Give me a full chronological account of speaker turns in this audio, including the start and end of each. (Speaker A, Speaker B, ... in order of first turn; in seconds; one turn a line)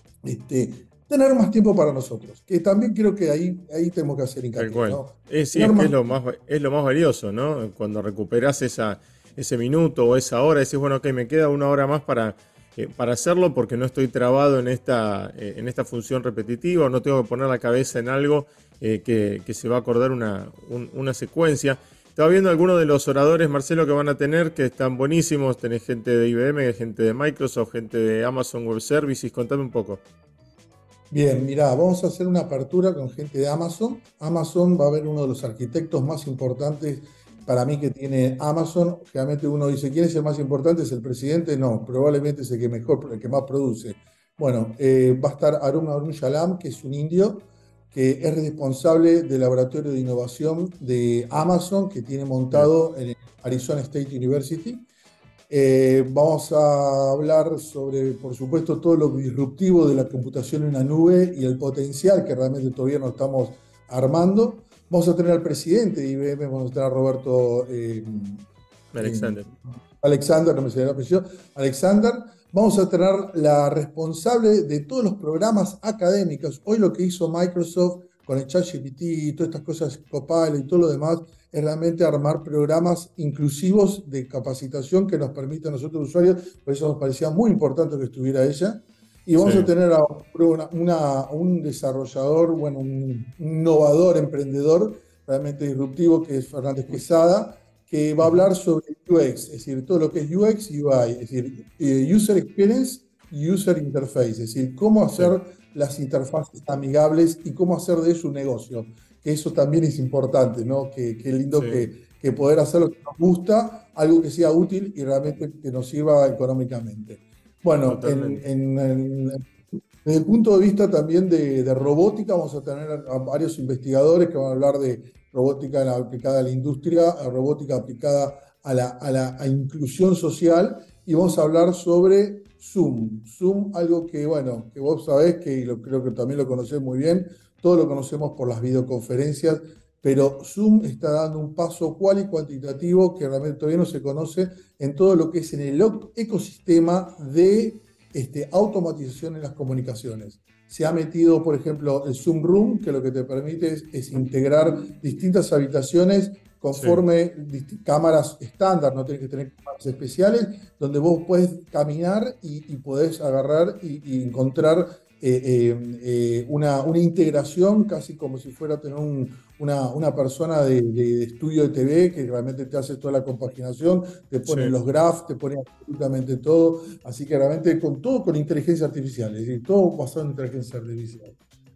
Speaker A: 0.2-6.0
Speaker B: 4.6-30.0
Speaker A: 31.1-54.9
Speaker A: 55.5-68.5
Speaker B: 68.9-69.5
Speaker A: 69.0-119.5
Speaker B: 89.4-89.7
Speaker B: 98.2-98.5
Speaker B: 111.5-111.9
Speaker B: 117.8-118.4
Speaker A: 120.0-181.4
Speaker B: 156.7-157.0
Speaker B: 174.5-174.7